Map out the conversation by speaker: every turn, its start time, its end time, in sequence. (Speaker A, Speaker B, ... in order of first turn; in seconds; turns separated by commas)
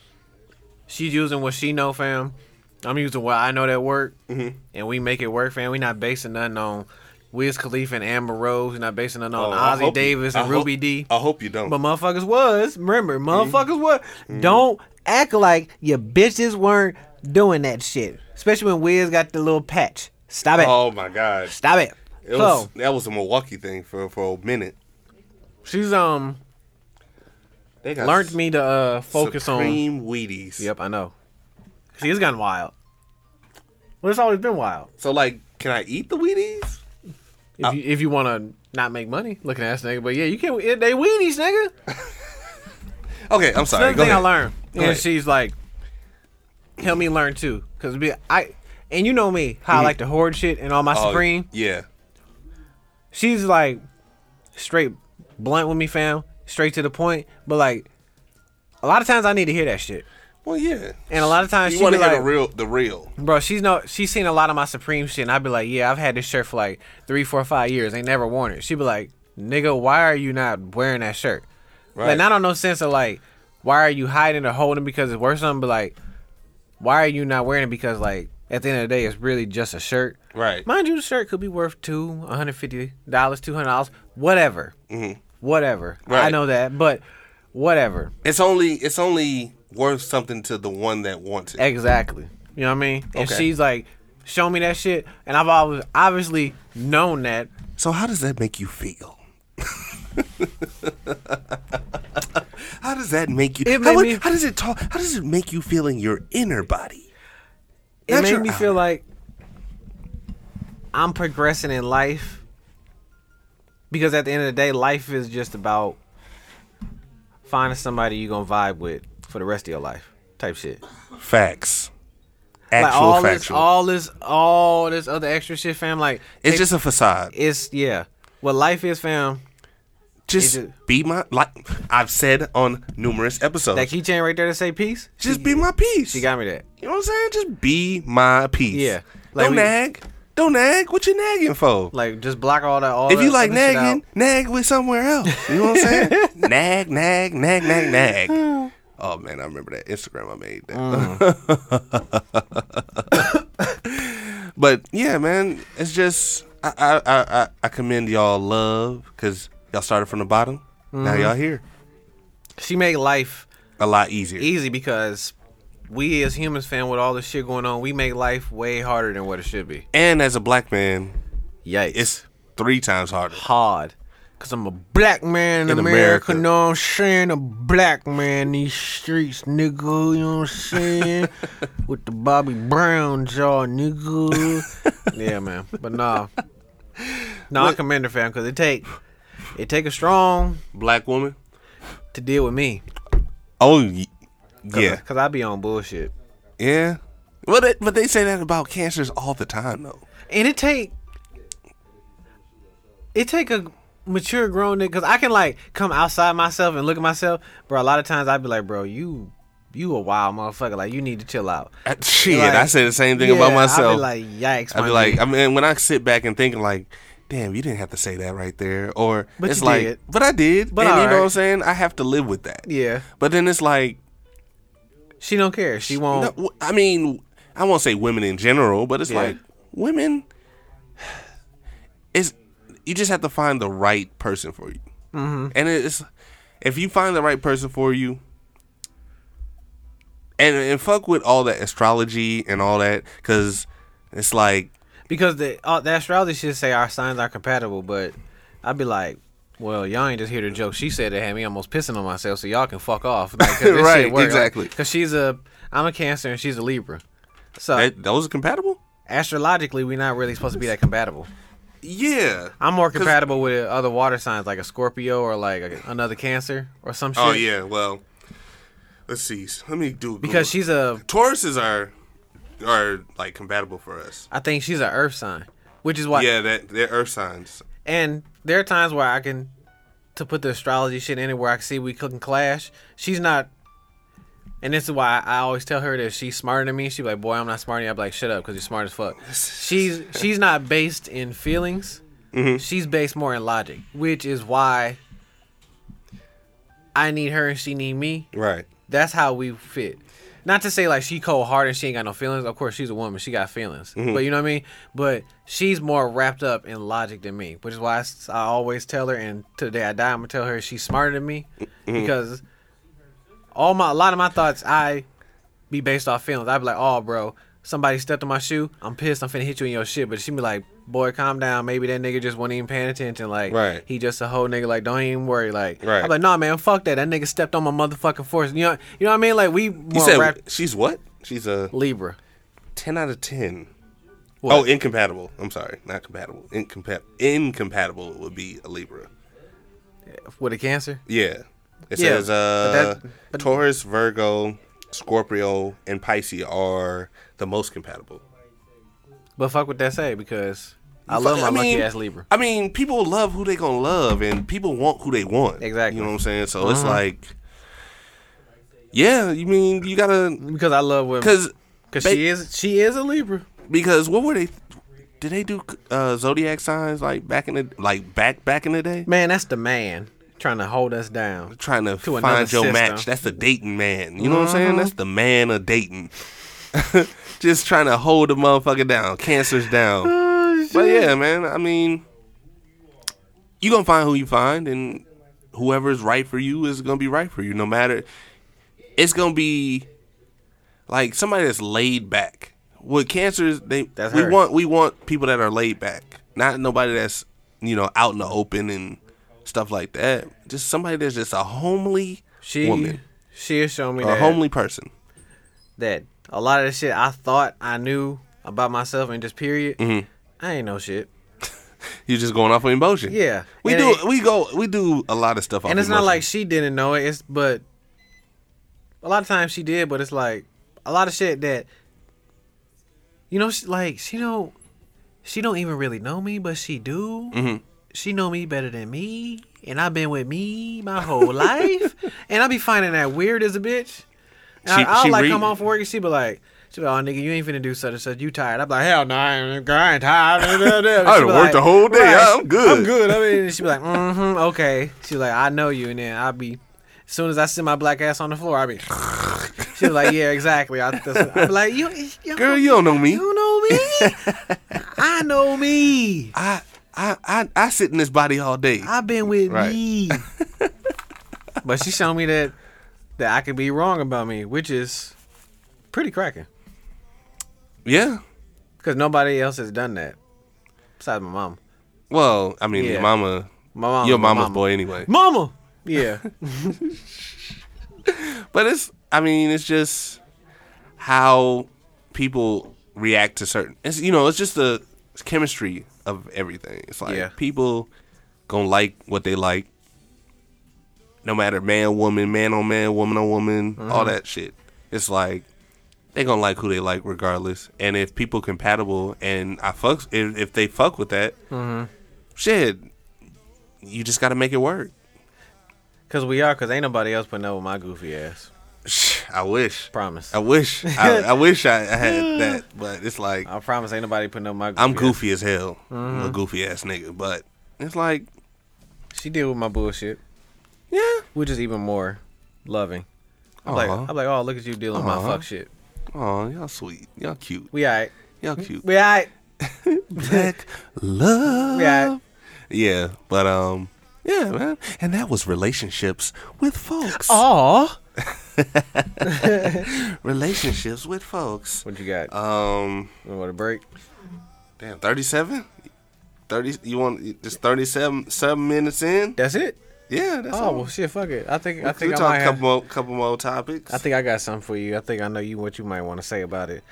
Speaker A: 0.9-4.2, Speaker B: 4.3-4.6, Speaker A: 4.7-11.1, Speaker B: 9.4-11.8, Speaker A: 11.7-20.8, Speaker B: 13.3-13.6, Speaker B: 14.3-14.7, Speaker B: 20.5-21.5, Speaker A: 21.5-22.7, Speaker B: 22.2-24.8, Speaker A: 25.6-26.4, Speaker B: 27.8-28.4, Speaker A: 28.0-29.8, Speaker B: 29.1-30.7, Speaker A: 30.6-31.1, Speaker A: 31.9-32.7, Speaker A: 34.0-34.9, Speaker B: 35.0-36.8, Speaker A: 37.6-41.7, Speaker B: 41.9-42.2, Speaker B: 43.3-45.0, Speaker A: 43.7-45.5, Speaker A: 46.8-51.5, Speaker B: 49.7-49.9, Speaker B: 50.9-51.9, Speaker A: 53.1-53.8, Speaker A: 54.5-57.9, Speaker A: 58.8-60.1, Speaker B: 60.4-63.1, Speaker A: 61.1-62.3, Speaker A: 63.2-71.5, Speaker B: 72.0-72.2, Speaker A: 72.0-76.0, Speaker A: 76.8-84.7, Speaker B: 80.3-80.7, Speaker B: 84.9-85.2, Speaker A: 85.4-87.0, Speaker B: 86.1-86.4, Speaker A: 87.5-88.1, Speaker B: 88.2-91.6, Speaker A: 91.6-97.5, Speaker B: 93.1-93.5, Speaker B: 97.8-107.1, Speaker A: 103.6-104.2, Speaker A: 108.1-109.0, Speaker B: 108.1-108.8, Speaker A: 110.9-112.4, Speaker A: 113.9-116.0, Speaker A: 117.5-120.8, Speaker B: 121.2-121.9, Speaker B: 122.7-123.7, Speaker A: 122.8-126.7, Speaker B: 126.4-127.3, Speaker A: 127.3-129.4, Speaker B: 130.3-133.9, Speaker A: 130.4-130.7, Speaker A: 133.7-136.7, Speaker B: 135.2-136.3, Speaker B: 136.8-141.9, Speaker A: 138.7-139.7, Speaker A: 141.9-144.0, Speaker B: 143.1-148.4, Speaker A: 145.3-146.3, Speaker A: 148.3-148.7, Speaker B: 149.0-153.3, Speaker A: 150.7-151.3, Speaker B: 153.8-161.6, Speaker A: 160.9-161.3, Speaker A: 162.6-163.5, Speaker B: 163.8-164.5, Speaker A: 164.4-165.3, Speaker A: 165.9-169.8, Speaker B: 169.9-171.2, Speaker A: 171.7-172.2, Speaker B: 171.9-173.4, Speaker A: 173.3-186.3, Speaker B: 175.7-176.4, Speaker B: 180.8-181.3, Speaker B: 184.3-184.6, Speaker A: 187.5-188.9, Speaker B: 187.5-187.8, Speaker A: 189.5-190.6, Speaker B: 190.7-191.4, Speaker A: 192.1-192.8, Speaker B: 193.6-194.1, Speaker B: 194.7-195.0, Speaker A: 194.7-196.1, Speaker B: 196.6-200.1, Speaker A: 200.3-200.9, Speaker A: 203.1-215.2, Speaker B: 211.8-214.1, Speaker B: 214.7-222.7, Speaker A: 219.4-220.0, Speaker A: 220.7-221.3, Speaker A: 222.7-223.1, Speaker B: 223.2-224.0, Speaker A: 225.2-226.3, Speaker B: 225.8-230.3, Speaker A: 229.1-229.4, Speaker B: 232.1-234.8, Speaker A: 235.1-235.5, Speaker B: 235.5-236.1, Speaker B: 236.6-238.2, Speaker B: 240.4-244.7, Speaker A: 245.1-257.0, Speaker B: 253.4-254.7, Speaker A: 257.6-257.9, Speaker B: 257.7-258.8, Speaker A: 259.1-261.3, Speaker B: 261.8-263.2, Speaker A: 262.6-267.4, Speaker B: 267.1-268.0, Speaker B: 269.1-271.9, Speaker A: 270.2-271.0, Speaker B: 272.6-274.3, Speaker A: 274.3-276.3, Speaker B: 276.1-277.6, Speaker A: 277.9-279.5, Speaker A: 280.1-283.5, Speaker A: 284.6-292.0, Speaker B: 289.3-290.2, Speaker B: 292.3-292.6, Speaker A: 292.6-295.0, Speaker A: 296.9-298.3, Speaker B: 298.3-298.7, Speaker A: 298.9-312.4, Speaker B: 304.0-304.2, Speaker A: 313.5-315.1, Speaker A: 315.7-330.4, Speaker B: 323.5-323.8, Speaker B: 325.8-326.1, Speaker B: 329.9-331.7, Speaker A: 331.7-332.2, Speaker B: 332.8-333.7, Speaker A: 334.4-334.7, Speaker B: 334.5-339.1, Speaker A: 340.1-341.0, Speaker B: 341.1-348.2, Speaker A: 342.0-343.5, Speaker A: 349.4-352.3, Speaker B: 351.1-357.4, Speaker A: 355.6-357.0, Speaker B: 358.9-360.4, Speaker A: 360.4-361.4, Speaker B: 361.2-362.2, Speaker A: 361.9-363.5, Speaker B: 363.7-364.6, Speaker B: 365.2-369.1, Speaker A: 369.1-373.1, Speaker B: 371.5-376.1, Speaker A: 374.2-374.9, Speaker B: 376.7-380.1, Speaker A: 380.0-381.1, Speaker B: 380.7-382.1, Speaker B: 383.6-388.1, Speaker B: 389.0-389.9, Speaker B: 390.9-403.0, Speaker A: 394.0-394.4, Speaker A: 402.4-404.4, Speaker B: 404.0-404.9, Speaker A: 405.8-409.8, Speaker B: 409.8-410.1, Speaker A: 410.4-411.1, Speaker B: 412.1-416.2, Speaker A: 413.1-414.0, Speaker A: 415.7-417.6, Speaker A: 419.0-421.7, Speaker A: 423.3-424.5, Speaker A: 425.2-427.4, Speaker B: 427.3-427.6, Speaker A: 427.9-434.1, Speaker B: 431.2-431.8, Speaker B: 434.6-435.5, Speaker A: 434.6-449.0, Speaker B: 440.4-443.6, Speaker B: 448.9-450.1, Speaker A: 449.7-456.3, Speaker B: 451.1-451.5, Speaker B: 452.4-454.9, Speaker B: 456.3-460.7, Speaker A: 458.8-460.2, Speaker A: 461.6-462.6, Speaker A: 463.2-465.1, Speaker A: 465.9-466.5, Speaker B: 467.9-468.2, Speaker A: 468.8-470.2, Speaker A: 471.0-471.6, Speaker B: 472.1-475.1, Speaker A: 472.7-473.1, Speaker A: 473.7-476.8, Speaker B: 476.8-480.2, Speaker B: 481.0-487.9, Speaker A: 487.1-487.3, Speaker B: 488.5-489.7, Speaker B: 491.2-495.5, Speaker A: 493.8-494.2, Speaker B: 496.1-501.4, Speaker A: 501.5-501.9, Speaker B: 502.4-502.9, Speaker B: 503.8-504.9, Speaker A: 506.1-508.5, Speaker B: 508.9-513.5, Speaker A: 509.9-511.3, Speaker A: 512.0-512.6, Speaker A: 513.5-515.2, Speaker B: 514.8-518.3, Speaker A: 515.9-516.4, Speaker A: 519.1-520.2, Speaker B: 520.9-521.3, Speaker A: 521.3-523.1, Speaker B: 523.6-524.1, Speaker A: 523.7-525.7, Speaker B: 524.9-525.5, Speaker B: 526.1-527.7, Speaker A: 527.7-529.3, Speaker B: 528.4-528.9, Speaker B: 529.6-537.5, Speaker A: 530.1-530.5, Speaker A: 531.6-532.1, Speaker A: 537.1-538.0, Speaker B: 538.2-543.1, Speaker A: 539.2-539.9, Speaker A: 541.9-542.3, Speaker A: 543.2-543.8, Speaker B: 544.8-545.7, Speaker B: 546.5-549.4, Speaker A: 549.4-549.8, Speaker B: 550.1-550.9, Speaker A: 550.5-552.6, Speaker B: 551.8-554.0, Speaker A: 553.9-556.8